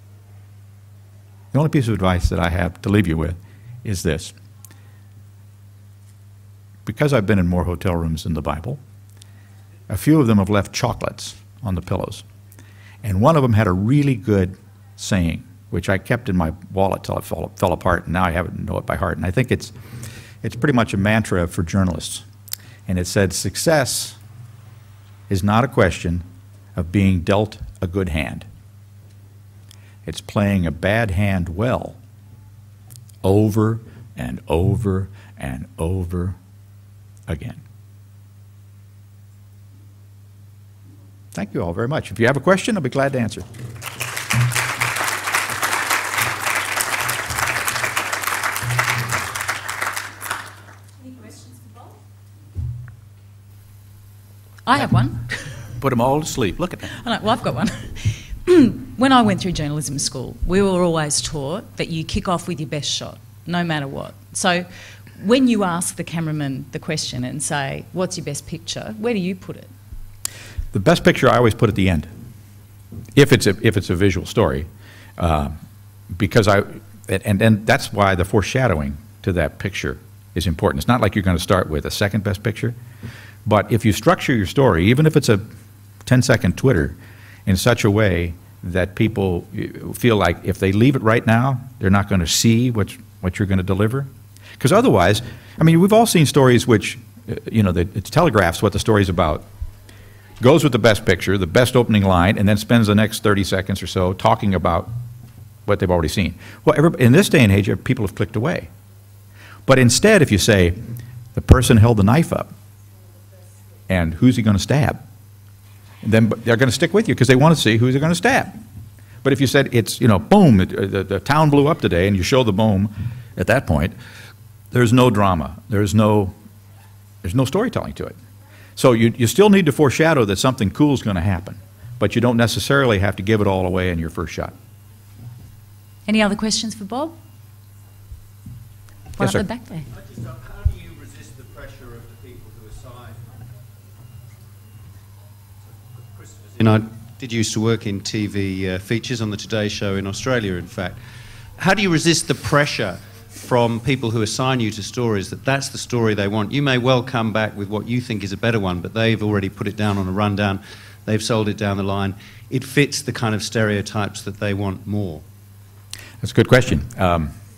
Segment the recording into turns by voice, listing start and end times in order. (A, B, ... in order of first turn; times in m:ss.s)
0:01.5-0:04.3 A
0:06.8-0:08.8 A
0:09.9-0:12.2 A
0:13.0-0:19.7 A
0:20.4-0:22.2 A
0:22.9-0:24.2 A
0:25.3-0:28.5 A
0:30.0-0:32.0 A
0:33.2-0:36.4 A
0:37.3-0:37.6 A
0:41.3-0:43.4 A
0:54.6-0:55.2 B
0:55.8-0:56.9 A
0:56.9-1:09.7 B
1:10.7-1:12.1 A
1:13.1-1:15.6 A
1:16.1-1:22.8 A
1:23.4-1:25.4 A
1:26.0-1:39.5 A
1:40.4-1:44.9 A
1:45.6-1:48.7 A
1:49.6-1:50.8 A
1:51.3-1:52.5 A
1:53.9-1:55.0 A
1:56.0-1:58.6 A
1:59.2-2:03.9 A
2:04.7-2:06.3 A
2:07.2-2:08.1 A
2:08.8-2:14.5 A
2:16.1-2:17.2 B
2:19.2-2:19.9 B
2:19.2-2:19.4 A
2:20.5-2:23.2 C
2:26.3-2:31.0 C
2:31.6-2:45.2 C
2:46.2-2:47.3 A